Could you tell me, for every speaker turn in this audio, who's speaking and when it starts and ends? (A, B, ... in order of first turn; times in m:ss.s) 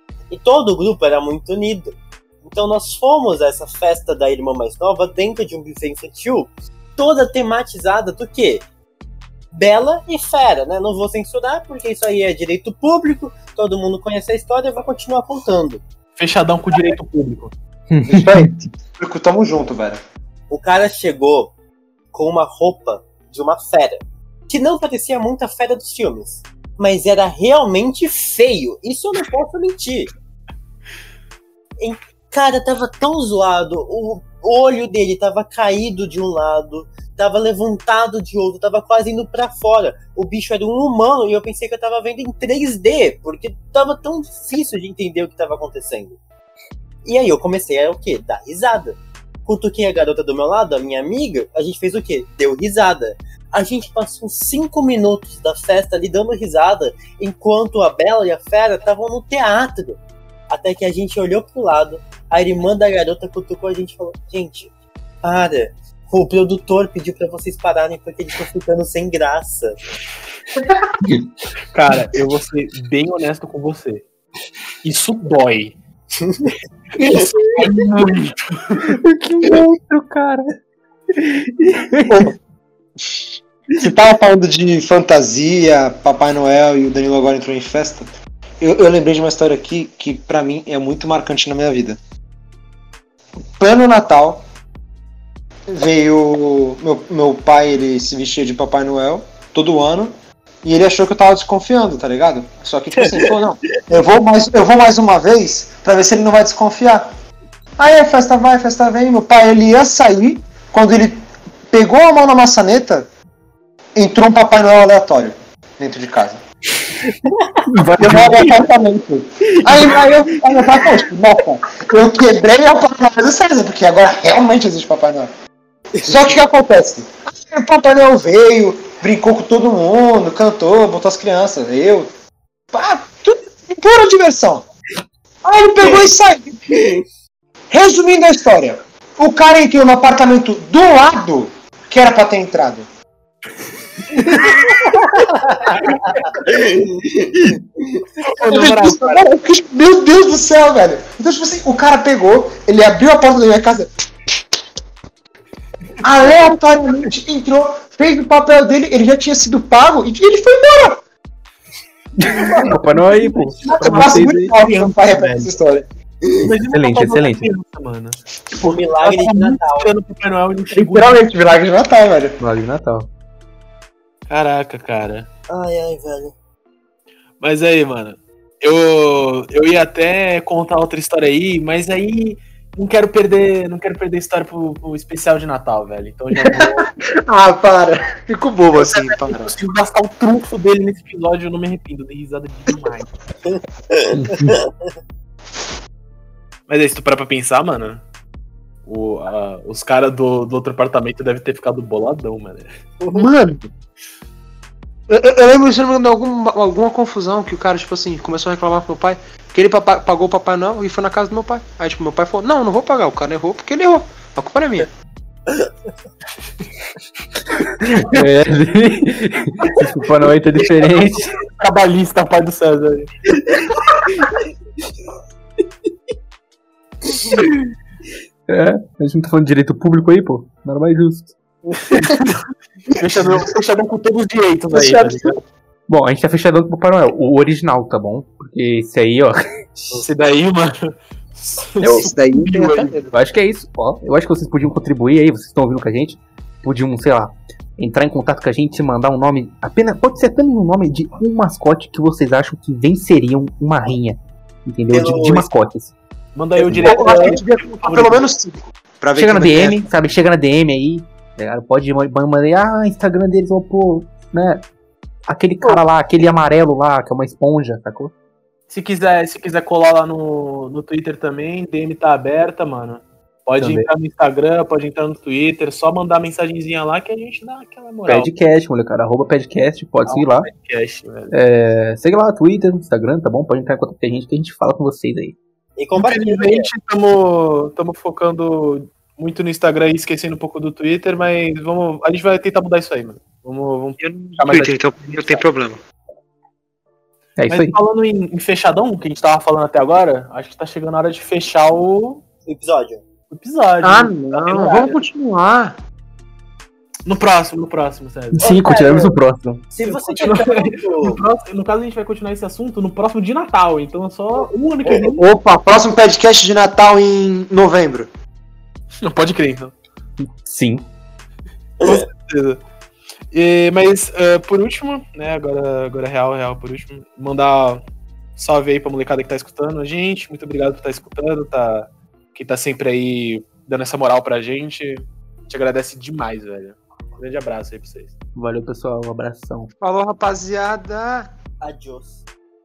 0:00.3-0:08.6 A
0:09.5-0:15.8 A
0:16.2-0:17.5 B
0:17.9-0:18.5 C
0:18.1-0:20.0 D
0:20.5-0:21.5 A
0:22.1-0:30.1 A
0:31.8-0:46.2 A
0:47.0-1:04.7 A
1:05.2-1:09.8 A
1:11.7-1:14.0 B
1:14.8-1:15.8 B
1:17.6-1:18.9 B
1:18.9-1:20.5 C
1:21.1-1:22.3 C
1:22.1-1:22.3 D
1:23.8-1:28.1 D
1:28.6-1:32.0 D
1:33.6-1:34.4 D
1:35.7-1:40.1 D
1:40.6-1:47.1 D
1:43.0-1:43.4 A
1:47.8-1:53.1 D
1:54.0-1:56.4 D
1:57.7-1:58.5 C
1:58.0-2:05.3 D
1:58.0-1:58.3 B
2:06.0-2:12.1 D
2:12.7-2:14.6 D
2:15.4-2:16.6 D
2:16.8-2:17.0 A
2:17.7-2:22.9 D
2:24.1-2:26.0 B
2:25.7-2:28.0 A
2:28.2-2:29.2 B
2:28.4-2:33.9 D
2:36.0-2:41.0 D
2:42.2-2:45.5 B
2:42.2-2:44.5 C
2:43.7-2:45.9 D
2:46.4-2:51.2 B
2:46.7-2:47.5 C
2:48.6-2:49.9 A
2:50.8-2:52.4 D
2:52.4-2:53.1 C
2:54.3-2:55.3 B
2:55.5-2:56.3 A
2:57.4-3:06.9 B
3:06.4-3:09.6 D
3:08.8-3:13.1 B
3:13.5-3:14.6 A
3:14.1-3:14.6 C
3:16.7-3:18.0 B
3:18.9-3:22.8 B
3:23.1-3:23.7 D
3:25.1-3:34.9 D
3:37.8-3:41.4 C
3:37.9-3:38.2 B
3:41.4-3:43.1 B
3:48.5-3:51.4 C
3:51.9-3:52.4 B
3:51.9-3:52.2 D
3:53.0-3:55.4 B
3:54.7-3:55.3 D
3:55.9-4:00.0 C
3:59.9-4:03.0 B
4:01.8-4:03.1 D
4:03.1-4:15.9 C
4:14.9-4:15.5 A
4:16.4-4:18.3 B
4:16.7-4:19.8 D
4:16.8-4:17.3 A
4:19.2-4:24.6 C
4:25.3-4:28.1 C
4:28.7-4:38.3 B
4:33.6-4:33.9 C
4:38.1-4:40.5 C
4:40.1-4:41.4 B
4:41.3-4:45.4 C
4:45.8-4:46.7 A
4:46.0-4:55.4 B
4:54.0-4:55.8 D
4:57.4-4:57.8 C
4:57.5-5:02.2 B
5:02.5-5:03.0 A
5:03.3-5:05.0 B
5:03.8-5:05.8 D
5:07.1-5:08.6 B
5:08.3-5:09.7 C
5:08.4-5:09.2 A
5:09.7-5:11.2 A
5:09.8-5:15.3 B
5:15.0-5:18.1 D
5:19.0-5:19.7 B
5:20.2-5:20.9 C
5:21.8-5:22.6 B
5:23.3-5:27.8 B
5:28.4-5:38.1 B
5:38.4-5:39.7 C
5:39.8-5:41.3 D
5:41.6-5:42.2 A